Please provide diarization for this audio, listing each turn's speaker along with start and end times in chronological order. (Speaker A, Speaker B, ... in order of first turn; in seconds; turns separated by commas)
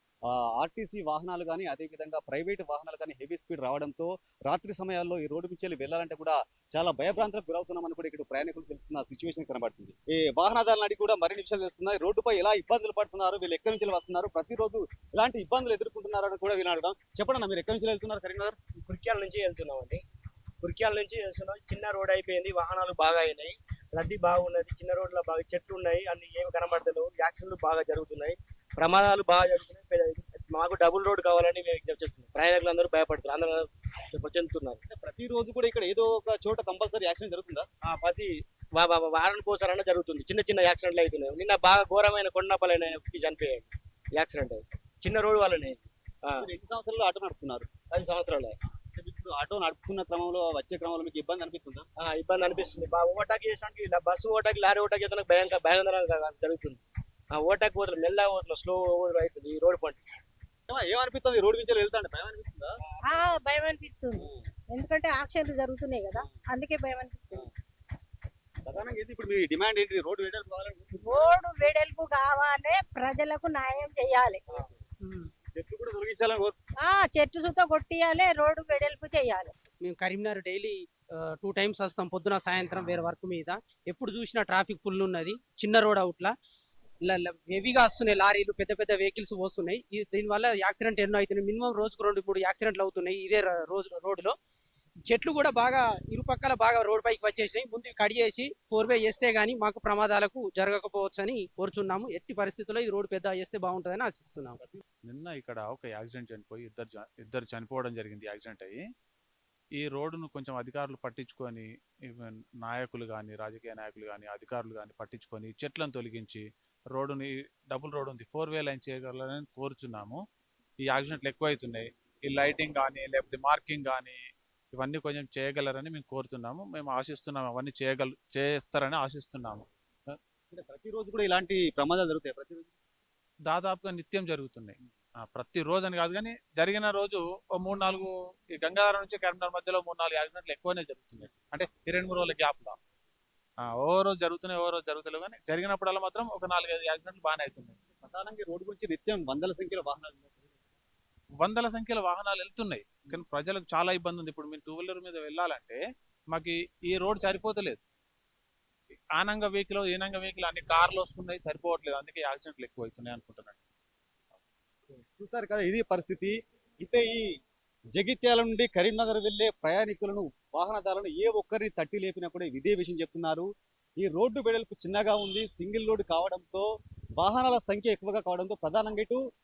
Speaker A: 0.3-18.6, Speaker B: 18.8-20.0, Speaker B: 20.6-34.8, Speaker A: 34.9-37.6, Speaker B: 37.8-46.5, Speaker A: 46.4-47.7, Speaker B: 47.9-48.5, Speaker A: 49.0-51.9, Speaker B: 52.0-56.8, Speaker B: 57.3-60.0, Speaker A: 60.7-62.7, Speaker C: 63.2-67.4, Speaker A: 68.6-71.0, Speaker C: 70.9-74.4, Speaker A: 75.5-76.5, Speaker C: 76.8-79.5, Speaker D: 79.8-86.3, Speaker D: 87.0-94.3, Speaker D: 95.1-104.6, Speaker E: 105.1-108.8, Speaker E: 109.8-116.4, Speaker E: 116.9-120.2, Speaker E: 120.9-124.2, Speaker E: 124.7-129.7, Speaker A: 130.5-132.7, Speaker E: 133.5-134.7, Speaker E: 135.3-142.8, Speaker E: 143.6-147.8, Speaker A: 148.0-150.4, Speaker E: 151.4-155.8, Speaker E: 156.3-157.8, Speaker E: 159.2-163.6, Speaker A: 165.1-167.2, Speaker A: 167.9-173.4, Speaker A: 174.0-176.7, Speaker A: 177.2-179.2